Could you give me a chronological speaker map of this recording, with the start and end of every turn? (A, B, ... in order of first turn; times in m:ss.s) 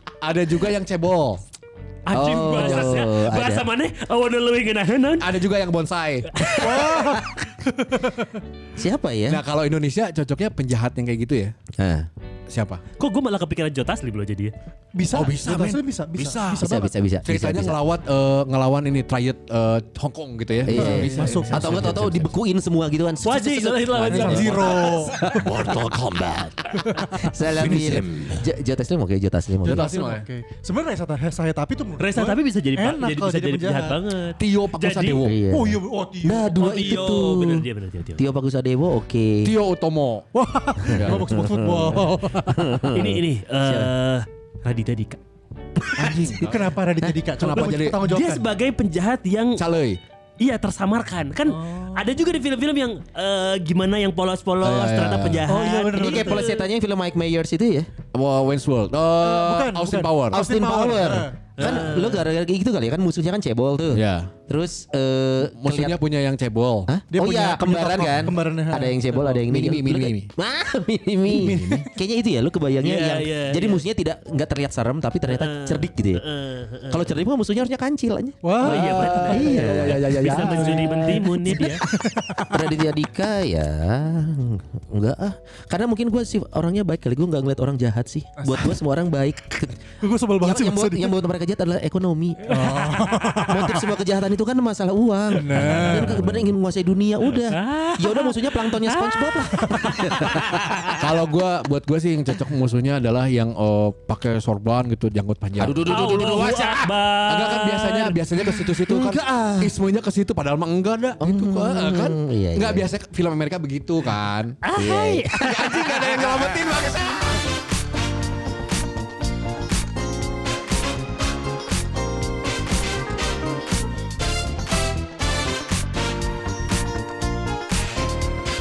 0:00.2-0:01.4 A
0:02.0-0:05.3 B
0:02.1-0:03.0 A
0:02.1-0:03.6 C
0:05.2-0:06.3 A
0:06.4-0:07.2 C
0:06.4-0:06.8 B
0:06.5-0:08.3 D
0:08.8-0:09.4 C
0:09.3-0:11.5 A
0:11.8-0:12.1 C
0:12.5-0:12.8 A
0:13.0-0:14.5 B
0:14.9-0:16.9 D
0:15.1-0:22.3 A
0:16.6-0:17.8 C
0:20.6-0:25.6 C
0:20.7-0:22.0 D
0:23.2-0:25.1 B
0:24.1-0:25.4 D
0:24.2-0:24.6 A
0:25.2-0:28.4 A
0:27.1-0:29.9 C
0:29.6-0:30.2 A
0:29.7-0:34.0 D
0:32.0-0:35.2 B
0:34.4-0:35.4 A
0:35.2-0:39.5 C
0:35.5-0:36.8 D
0:36.5-0:38.2 B
0:39.4-0:40.3 A
0:40.3-0:43.0 D
0:40.8-0:43.9 C
0:40.9-0:41.3 A
0:42.9-0:45.2 B
0:46.0-0:46.7 A
0:46.1-0:48.4 D
0:47.4-0:48.0 A
0:48.0-0:49.6 B
0:49.6-0:50.0 A
0:50.4-0:56.7 B
0:51.5-0:52.2 D
0:54.6-0:55.4 A
0:55.5-0:56.6 D
0:55.9-0:57.9 C
0:58.1-1:00.5 A
0:59.2-1:01.8 D
1:00.3-1:06.0 C
1:01.6-1:02.3 B
1:03.9-1:04.3 A
1:05.5-1:06.9 A
1:06.9-1:16.2 C
1:07.1-1:09.4 D
1:09.5-1:10.3 A
1:11.2-1:11.9 D
1:11.4-1:11.8 A
1:12.8-1:13.8 B
1:15.3-1:17.2 B
1:16.9-1:20.6 C
1:18.4-1:19.3 D
1:18.6-1:21.8 B
1:18.6-1:21.6 A
1:20.5-1:22.7 D
1:22.5-1:29.8 C
1:28.4-1:28.8 D
1:30.0-1:31.2 D
1:30.4-1:40.9 C
1:32.4-1:34.0 D
1:35.3-1:36.2 D
1:35.5-1:36.5 A
1:37.3-1:41.0 B
1:41.0-1:46.2 A
1:45.6-1:46.9 C
1:45.8-1:48.2 B
1:47.2-1:54.6 A
1:48.8-1:49.7 C
1:51.2-1:52.9 C
1:54.6-1:56.0 B
1:54.8-1:57.3 C
1:55.4-1:57.4 A